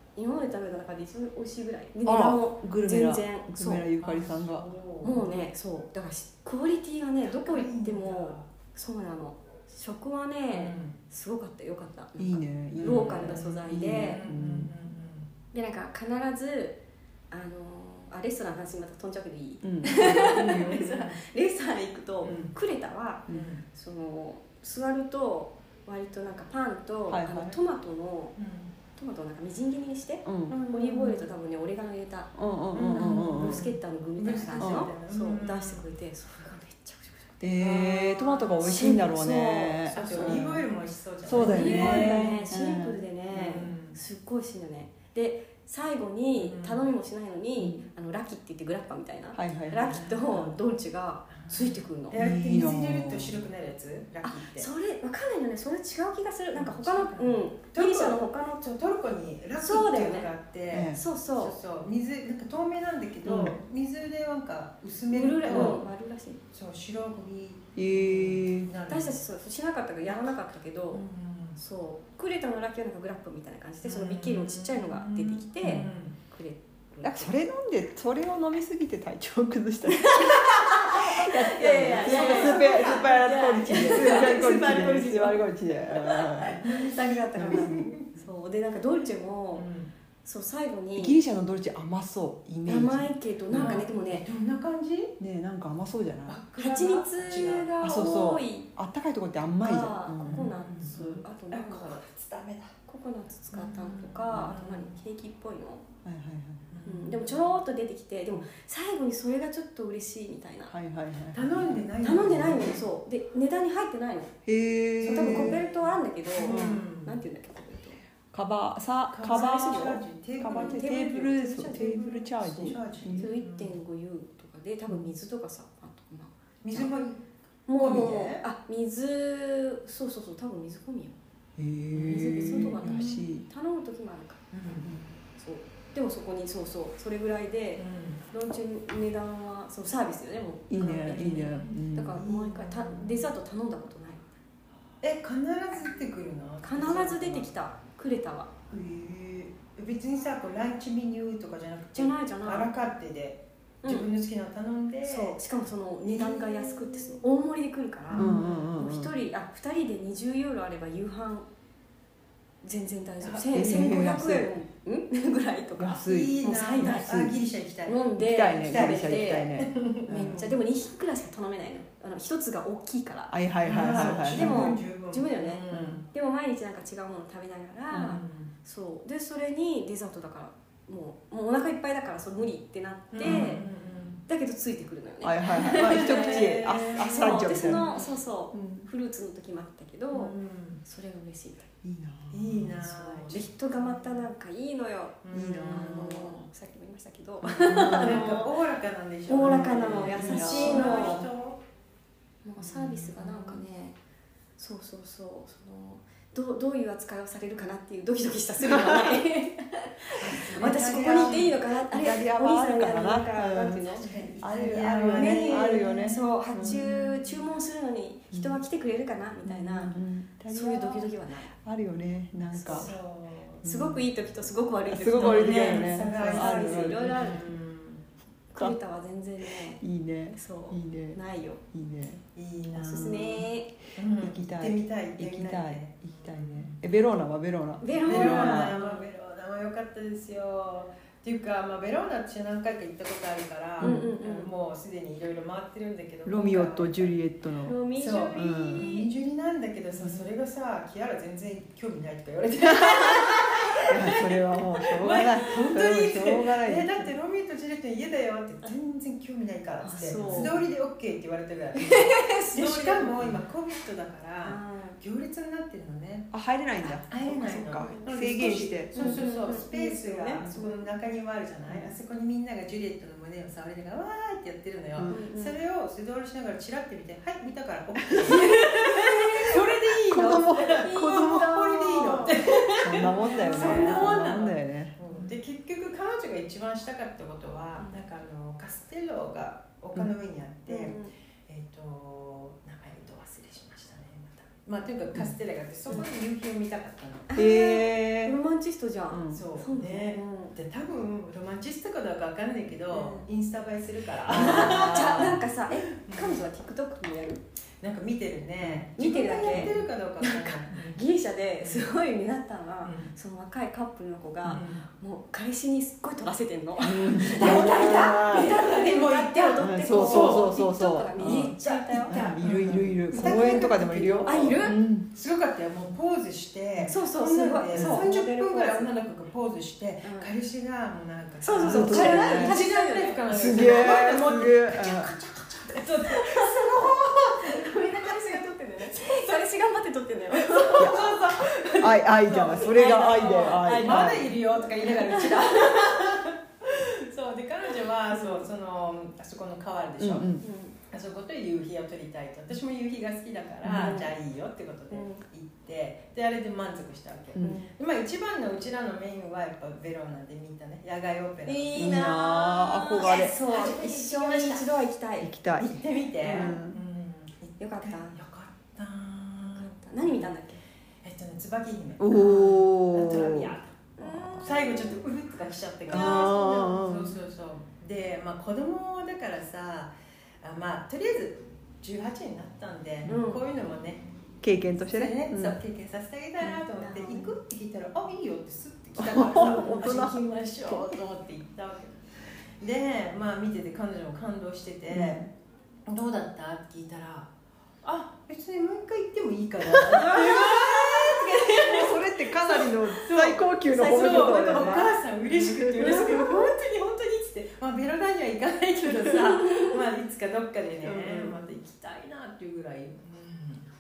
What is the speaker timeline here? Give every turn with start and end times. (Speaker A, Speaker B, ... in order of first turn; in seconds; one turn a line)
Speaker A: 0.1-3.9
Speaker B: 2.0-4.7
Speaker C: 4.0-5.3
Speaker A: 5.0-14.2
Speaker C: 7.2-8.5
Speaker C: 10.5-11.0
Speaker B: 12.2-14.7
Speaker C: 12.7-15.3
Speaker A: 15.5-16.8
Speaker A: 17.3-28.3
Speaker B: 19.6-20.8
Speaker C: 20.2-21.2
Speaker C: 22.2-22.5
Speaker C: 23.3-23.6
Speaker B: 27.1-27.6
Speaker C: 28.4-28.7
Speaker A: 28.9-37.4
Speaker B: 30.2-30.6
Speaker C: 30.5-31.3
Speaker B: 32.3-33.6
Speaker C: 32.7-35.9
Speaker B: 34.6-34.9
Speaker B: 37.4-40.6
Speaker C: 37.6-39.0
Speaker A: 38.6-40.5
Speaker C: 39.9-42.5
Speaker B: 41.2-43.0
Speaker A: 41.4-52.2
Speaker C: 43.3-44.0
Speaker C: 46.4-46.9
Speaker B: 47.6-47.9
Speaker B: 49.3-50.2
Speaker C: 50.2-50.6
Speaker C: 51.3-54.7
Speaker B: 52.1-53.4
Speaker A: 54.2-58.7
Speaker C: 56.5-65.8
Speaker A: 59.5-60.3
Speaker B: 60.7-61.0
Speaker A: 60.9-61.6
Speaker B: 63.2-63.6
Speaker A: 65.1-66.4
Speaker B: 65.5-65.8
Speaker C: 66.5-69.2
Speaker B: 67.8-68.7
Speaker A: 68.9-71.0
Speaker C: 70.9-71.6
Speaker A: 71.6-77.3
Speaker C: 73.8-76.2
Speaker B: 75.6-75.9
Speaker B: 77.0-86.6
Speaker A: 80.0-89.7
Speaker C: 82.1-82.6
Speaker C: 83.9-84.3
Speaker C: 86.6-88.0
Speaker B: 87.4-87.7
Speaker C: 89.5-89.9
Speaker A: 90.2-91.2
Speaker B: 91.0-93.8
Speaker A: 92.6-94.2
Speaker C: 93.5-95.2
Speaker B: 95.2-96.4
Speaker C: 96.3-97.7
Speaker A: 96.6-98.7
Speaker B: 97.8-100.5
Speaker A: 99.6-102.0
Speaker C: 100.2-102.7
Speaker A: 102.9-105.8
Speaker C: 103.5-104.9
Speaker B: 106.0-106.7
Speaker C: 106.7-107.5
Speaker A: 106.8-110.7
Speaker B: 110.7-111.8
Speaker C: 111.3-112.8
Speaker A: 112.0-114.3
Speaker B: 114.5-115.6
Speaker C: 115.0-117.2
Speaker A: 115.0-118.0
Speaker B: 116.4-116.8
Speaker B: 118.3-123.3
Speaker C: 119.1-123.8
Speaker A: 119.2-121.3
Speaker A: 123.2-126.9
Speaker C: 126.6-127.2
Speaker A: 127.7-131.2
Speaker C: 127.7-128.4
Speaker B: 131.6-133.4
Speaker A: 131.9-144.2
Speaker C: 131.9-133.2
Speaker C: 134.5-134.9
Speaker B: 134.8-135.1
Speaker C: 137.8-138.2
Speaker B: 140.7-142.3
Speaker C: 142.2-143.3
Speaker C: 145.0-147.5
Speaker A: 146.6-148.5
Speaker C: 148.7-155.4
Speaker A: 151.9-152.7
Speaker A: 153.8-154.1
Speaker A: 155.0-161.4
Speaker C: 156.0-157.2
Speaker C: 158.1-158.7
Speaker B: 158.1-159.1
Speaker A: 162.6-167.3
Speaker C: 163.2-163.6
Speaker B: 163.5-164.5
Speaker B: 165.8-167.3
Speaker C: 166.0-168.0
Speaker A: 167.8-169.6
Speaker B: 168.2-170.6
Speaker C: 168.6-170.4
Speaker A: 170.1-183.6
Speaker B: 173.3-174.8
Speaker C: 173.6-176.1
Speaker B: 175.7-176.0
Speaker B: 177.9-178.2
Speaker C: 178.1-178.5
Speaker C: 183.1-184.2
Speaker B: 183.2-183.6
Speaker A: 184.3-191.7
Speaker B: 185.2-188.9
Speaker C: 185.6-188.0
Speaker C: 190.1-190.8
Speaker B: 191.8-192.7
Speaker C: 192.3-194.3
Speaker A: 192.8-195.2
Speaker C: 195.2-196.4
Speaker B: 195.3-196.4
Speaker A: 195.7-198.5
Speaker B: 197.4-198.3
Speaker C: 197.6-201.6
Speaker A: 199.3-201.2
Speaker B: 199.4-201.3
Speaker A: 202.4-204.0
Speaker C: 202.6-203.7
Speaker A: 204.6-214.1
Speaker C: 210.2-211.6
Speaker B: 210.6-216.9
Speaker C: 214.0-217.5
Speaker A: 215.1-219.9
Speaker B: 218.3-218.6
Speaker B: 219.4-221.1
Speaker A: 220.5-221.5
Speaker B: 221.6-222.9
Speaker A: 222.5-223.0
Speaker C: 222.7-223.6
Speaker A: 223.6-227.5
Speaker B: 223.6-224.0
Speaker B: 224.9-227.4
Speaker C: 225.1-228.0
Speaker A: 228.5-229.8
Speaker B: 229.8-231.2
Speaker A: 230.3-231.6
Speaker B: 231.7-232.2
Speaker C: 232.3-236.8
Speaker A: 232.7-233.7
Speaker B: 234.2-238.8
Speaker A: 237.8-239.1
Speaker C: 238.0-247.2
Speaker B: 243.8-244.1
Speaker A: 243.8-244.5
Speaker B: 246.2-247.8
Speaker A: 247.6-249.1
Speaker C: 247.9-254.4
Speaker B: 248.3-248.8
Speaker B: 249.9-250.3
Speaker B: 253.8-257.1
Speaker C: 255.0-297.3
Speaker A: 259.8-260.6
Speaker B: 259.9-260.6
Speaker A: 261.7-263.3
Speaker A: 264.4-265.0
Speaker B: 266.3-269.2
Speaker A: 267.8-268.1
Speaker A: 268.9-270.5
Speaker B: 270.4-270.7
Speaker B: 271.7-271.9
Speaker B: 274.9-275.2
Speaker A: 275.1-275.6
Speaker B: 278.1-278.6
Speaker A: 278.3-279.3
Speaker B: 280.1-285.0
Speaker A: 280.6-281.4
Speaker A: 283.0-284.2
Speaker A: 290.7-291.1
Speaker A: 297.3-300.5
Speaker B: 297.3-298.4
Speaker B: 299.1-299.4
Speaker C: 299.3-306.4
Speaker A: 302.9-303.3
Speaker B: 304.3-305.4
Speaker A: 304.3-307.4
Speaker C: 307.8-311.0
Speaker A: 308.9-322.3
Speaker B: 309.5-309.8
Speaker C: 311.6-311.9
Speaker C: 312.8-313.1
Speaker C: 314.5-314.8
Speaker B: 316.8-318.5
Speaker C: 317.3-320.5
Speaker B: 319.6-325.1
Speaker C: 321.2-339.4
Speaker A: 323.1-324.8
Speaker A: 326.9-329.0
Speaker B: 327.7-328.1
Speaker A: 330.0-330.3
Speaker A: 331.4-341.1
Speaker B: 331.6-332.6
Speaker B: 333.3-335.2
Speaker C: 340.4-350.3
Speaker B: 340.8-341.2
Speaker B: 341.8-344.3
Speaker A: 342.5-344.3
Speaker A: 344.8-345.9
Speaker A: 348.1-348.5
Speaker B: 350.0-350.4
Speaker A: 350.4-350.7
Speaker C: 350.9-362.0
Speaker B: 353.6-354.0
Speaker A: 353.6-354.1
Speaker A: 354.9-355.2
Speaker B: 357.3-357.6
Speaker A: 357.4-357.7
Speaker A: 361.4-365.3
Speaker B: 361.8-363.4
Speaker C: 363.0-364.8
Speaker B: 365.2-366.8
Speaker C: 365.6-370.3
Speaker A: 366.2-366.6
Speaker A: 367.6-368.1
Speaker A: 369.6-370.6
Speaker C: 371.0-384.1
Speaker B: 372.0-374.4
Speaker A: 372.1-372.5
Speaker A: 374.0-374.9
Speaker B: 375.9-377.2
Speaker A: 375.9-376.3
Speaker A: 383.1-383.4
Speaker B: 384.4-385.6
Speaker C: 384.8-392.0
Speaker A: 386.4-387.3
Speaker B: 389.0-391.0
Speaker A: 389.4-389.8
Speaker C: 392.6-395.2
Speaker B: 394.9-395.3
Speaker C: 395.9-397.3
Speaker C: 397.8-413.6
Speaker B: 399.7-400.5
Speaker A: 400.0-401.1
Speaker B: 401.5-406.4
Speaker A: 404.3-404.8
Speaker A: 405.8-406.2
Speaker A: 409.4-409.7
Speaker B: 410.8-411.4